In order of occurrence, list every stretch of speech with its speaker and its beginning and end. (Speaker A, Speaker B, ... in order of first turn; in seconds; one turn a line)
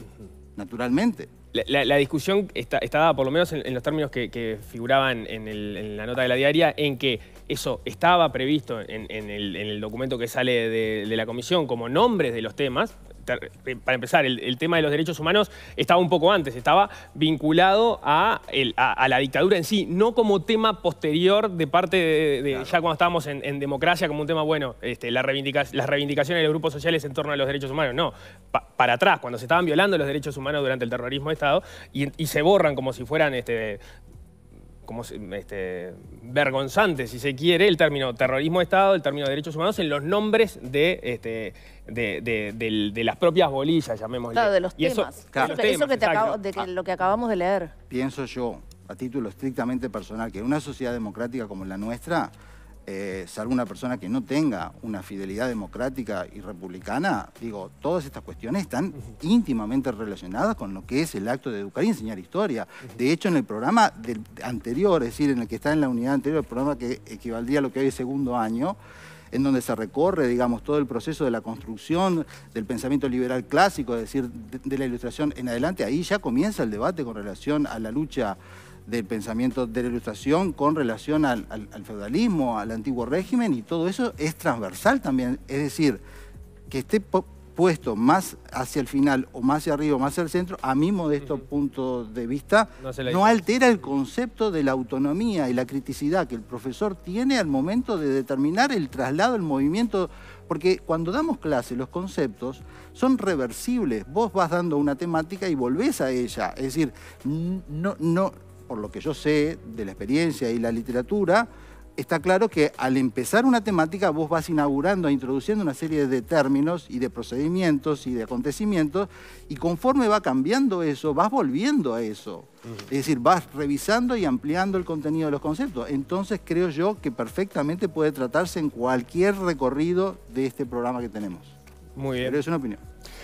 Speaker A: 0.6-1.3
Speaker B: 1.5-33.8
Speaker A: 22.5-22.8
Speaker B: 34.8-46.4
Speaker C: 44.3-47.7
Speaker A: 47.9-52.3
Speaker A: 52.9-68.8
Speaker A: 69.3-86.0
Speaker A: 86.7-131.5
Speaker B: 92.8-93.4
Speaker B: 131.9-132.4
Speaker A: 132.2-132.8